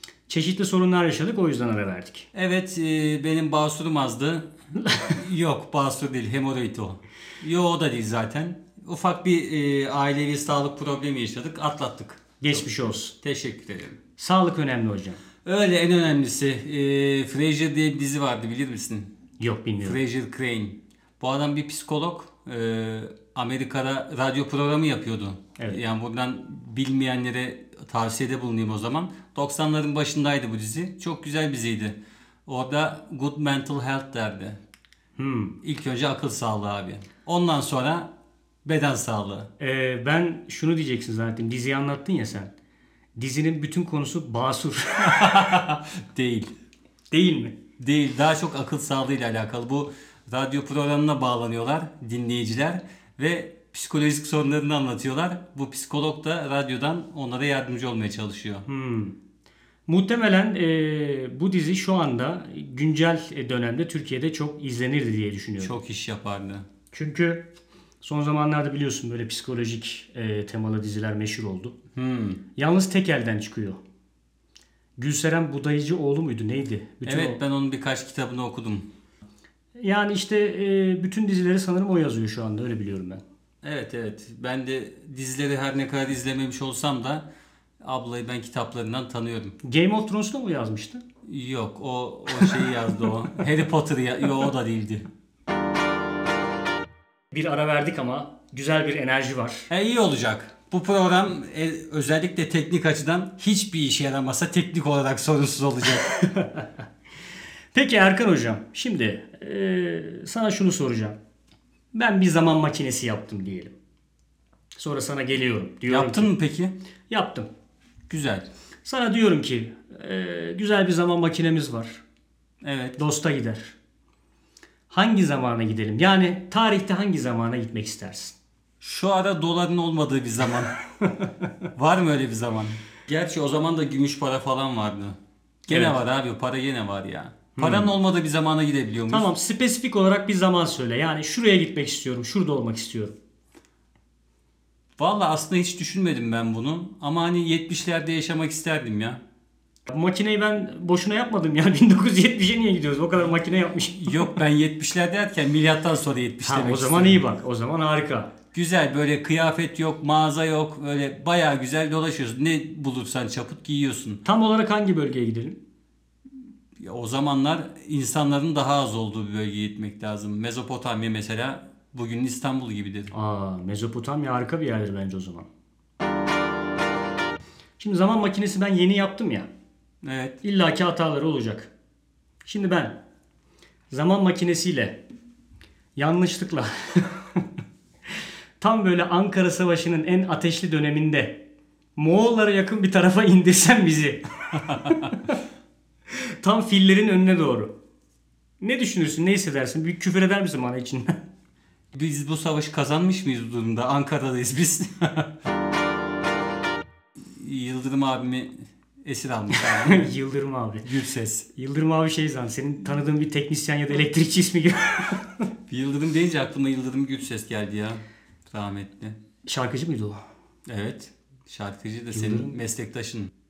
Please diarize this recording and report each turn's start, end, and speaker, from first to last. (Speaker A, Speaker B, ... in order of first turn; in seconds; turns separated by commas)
Speaker A: 0.3-2.3, Speaker B: 2.3-12.6, Speaker A: 12.4-13.1, Speaker B: 13.2-14.0, Speaker A: 14.2-15.2, Speaker B: 15.4-19.1, Speaker A: 19.4-20.0, Speaker B: 19.8-34.6, Speaker A: 35.2-35.6, Speaker B: 35.6-38.1, Speaker B: 38.6-39.5, Speaker A: 39.6-42.5, Speaker A: 43.2-45.4, Speaker B: 45.0-46.5, Speaker A: 47.1-47.5, Speaker B: 47.8-58.6, Speaker A: 58.6-59.1, Speaker A: 59.9-65.7, Speaker B: 65.6-66.6, Speaker A: 66.9-67.5, Speaker A: 68.0-71.8, Speaker B: 71.9-72.4, Speaker A: 72.5-73.8, Speaker A: 75.0-77.4, Speaker B: 77.0-78.9, Speaker A: 79.8-83.2, Speaker B: 83.6-87.3, Speaker B: 87.8-89.6, Speaker A: 89.6-91.0, Speaker B: 91.2-95.1, Speaker A: 97.3-99.7, Speaker B: 99.7-106.2, Speaker A: 105.9-106.7, Speaker A: 107.7-111.2, Speaker A: 111.9-113.7, Speaker A: 114.8-116.3, Speaker B: 115.9-116.7, Speaker A: 117.1-117.5, Speaker B: 118.1-118.5, Speaker A: 118.8-122.0, Speaker B: 122.6-123.0, Speaker A: 123.0-123.8, Speaker A: 124.9-128.3, Speaker B: 128.8-130.7, Speaker A: 131.0-131.3, Speaker B: 131.8-139.3, Speaker A: 135.7-136.0, Speaker A: 137.6-137.9, Speaker A: 139.1-143.1, Speaker B: 145.0-149.2, Speaker A: 149.9-154.3, Speaker B: 153.9-157.2, Speaker A: 156.4-158.3, Speaker B: 158.5-164.2, Speaker A: 164.2-165.6, Speaker B: 166.8-173.1, Speaker A: 173.1-175.5, Speaker A: 177.8-179.5, Speaker B: 180.0-180.4, Speaker A: 180.4-181.7, Speaker A: 182.4-183.0, Speaker A: 183.9-185.0, Speaker A: 185.9-187.4, Speaker A: 188.6-191.4, Speaker A: 191.9-195.3, Speaker A: 196.1-197.7, Speaker A: 198.6-201.2, Speaker B: 201.9-205.3, Speaker B: 207.2-210.1, Speaker A: 209.6-210.9, Speaker B: 210.8-211.5, Speaker A: 211.6-215.4, Speaker B: 215.7-219.2, Speaker A: 219.4-220.2, Speaker B: 220.7-223.3, Speaker A: 222.1-222.6